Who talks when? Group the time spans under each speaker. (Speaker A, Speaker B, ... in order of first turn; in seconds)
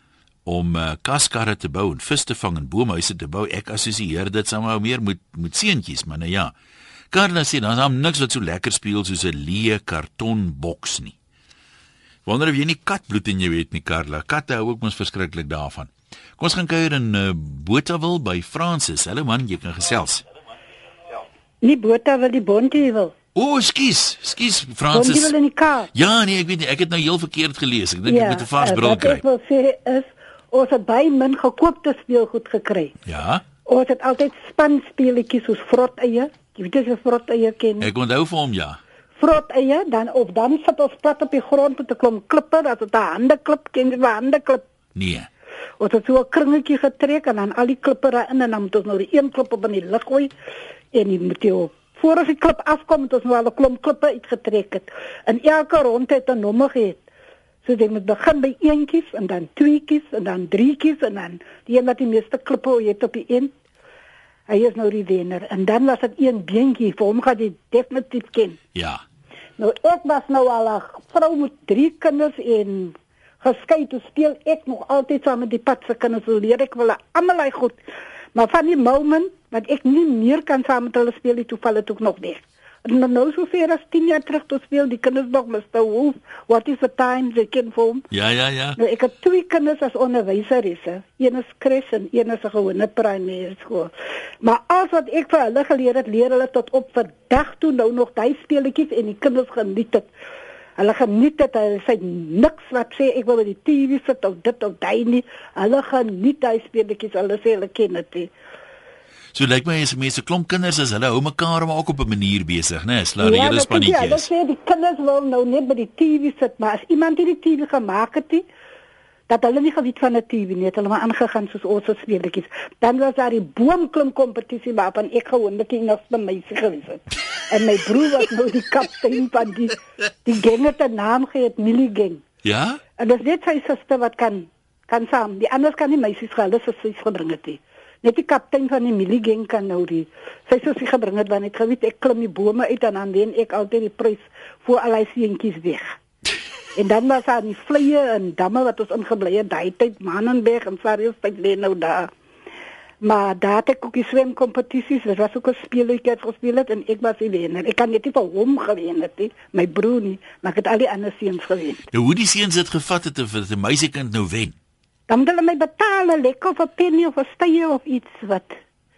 Speaker A: 0.5-6.5, 7.1-11.1, 12.2-20.2, 23.3-25.3, 25.9-29.2, 33.0-33.4, 37.8-38.8, 44.9-45.3, 68.7-69.0, 88.1-88.8, 109.3-114.3, 132.4-132.8, 161.9-164.6
Speaker B: 21.6-23.1, 24.9-25.9, 28.1-32.9, 33.7-37.9, 39.2-44.6, 45.8-50.3, 50.9-57.0, 57.6-63.5, 64.5-68.6, 69.6-77.8, 78.3-88.0, 88.8-93.9, 94.4-100.1, 100.8-108.3, 113.2-118.4, 119.3-132.2, 133.0-145.9, 146.8-152.1, 153.0-161.8, 165.1-168.6